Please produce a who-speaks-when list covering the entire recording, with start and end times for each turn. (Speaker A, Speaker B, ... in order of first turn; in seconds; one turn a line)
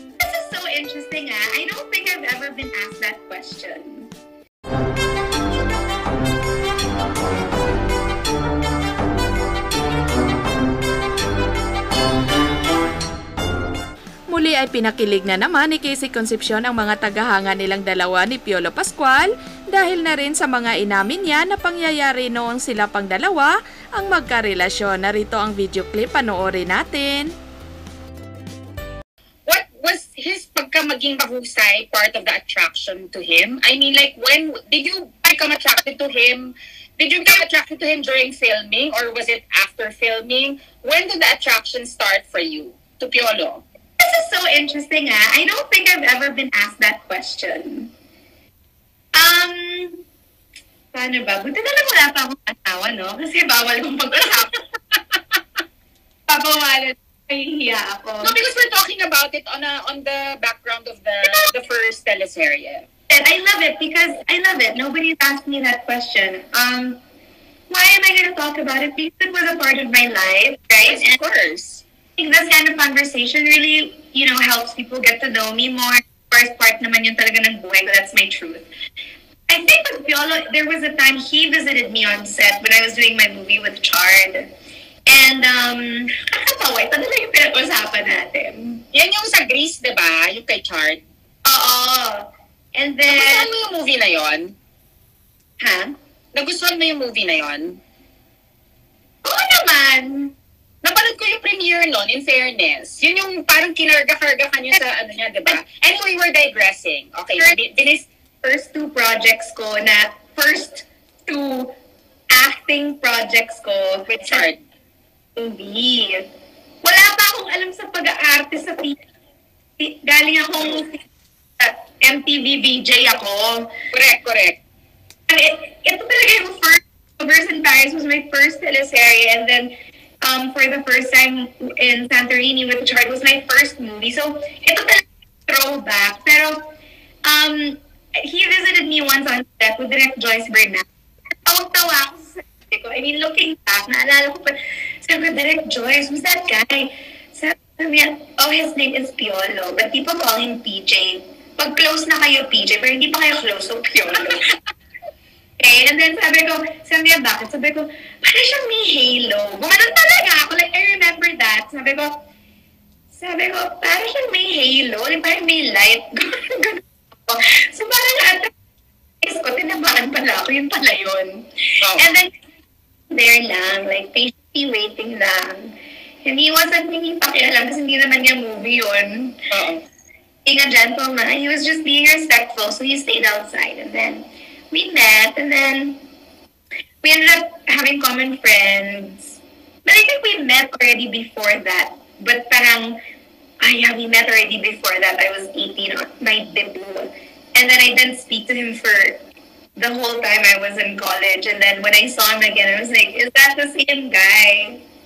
Speaker A: 0.2-4.1
Speaker B: 14.3-27.3
Speaker C: 29.4-43.6
Speaker A: 44.0-47.9
Speaker A: 49.1-50.0
Speaker A: 50.9-54.6
Speaker A: 56.3-58.4
Speaker C: 58.2-62.9
Speaker A: 61.2-61.5
Speaker A: 63.1-67.0
Speaker A: 67.7-71.2
Speaker C: 70.8-71.8
Speaker A: 72.2-78.7
Speaker A: 79.5-84.5
Speaker A: 85.1-88.8
Speaker C: 88.9-91.0
Speaker A: 91.4-93.5
Speaker C: 93.1-94.6
Speaker A: 95.6-95.9
Speaker C: 96.3-97.8
Speaker A: 99.2-100.3
Speaker C: 100.8-108.1
Speaker A: 107.4-107.8
Speaker A: 108.4-111.7
Speaker A: 112.3-114.5
Speaker C: 114.2-114.6
Speaker A: 115.3-116.3
Speaker A: 116.8-119.0
Speaker A: 119.8-121.0
Speaker A: 121.6-123.7
Speaker C: 123.9-124.6
Speaker A: 125.3-136.6
Speaker A: 137.2-140.8
Speaker A: 141.4-154.6
Speaker A: 155.6-162.2
Speaker A: 163.1-168.5
Speaker A: 169.2-172.3
Speaker C: 171.8-172.1
Speaker A: 173.1-179.4
Speaker C: 179.5-179.8
Speaker A: 180.4-186.0
Speaker A: 187.0-193.0
Speaker A: 193.6-199.2
Speaker A: 199.8-204.8